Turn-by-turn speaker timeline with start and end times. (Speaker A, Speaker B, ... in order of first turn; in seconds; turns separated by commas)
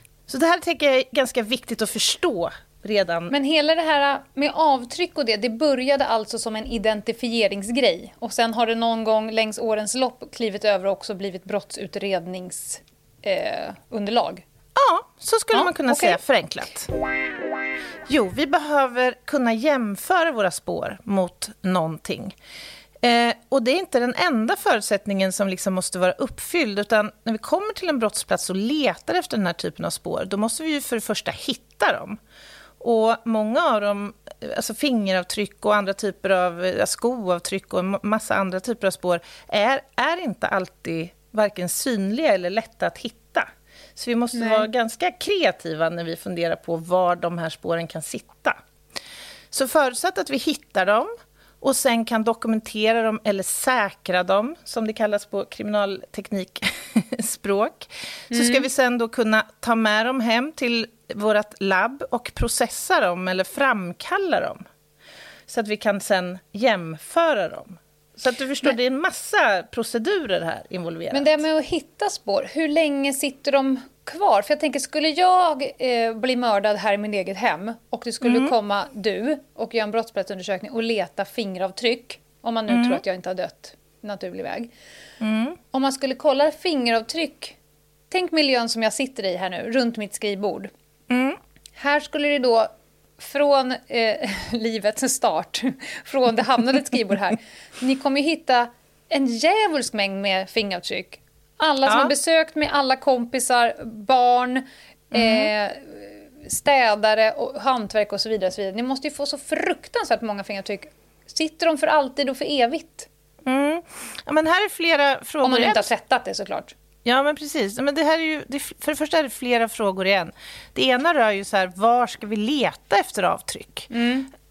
Speaker A: 0.3-3.3, Speaker B: 3.3-14.4, Speaker A: 14.8-16.9, Speaker B: 15.5-16.2, Speaker A: 18.1-22.3, Speaker A: 23.0-32.2, Speaker A: 32.8-48.6, Speaker B: 44.3-44.7, Speaker A: 49.5-64.6, Speaker B: 58.3-58.7, Speaker A: 65.5-71.4, Speaker B: 71.1-84.7, Speaker A: 78.2-78.5, Speaker A: 82.7-83.0, Speaker A: 85.2-85.6, Speaker B: 85.7-87.5, Speaker B: 88.1-90.7, Speaker A: 91.1-91.4, Speaker B: 91.8-113.1, Speaker A: 101.8-102.1, Speaker A: 105.1-105.5, Speaker A: 113.5-115.9, Speaker B: 115.4-116.7, Speaker A: 117.0-123.9, Speaker B: 123.9-124.3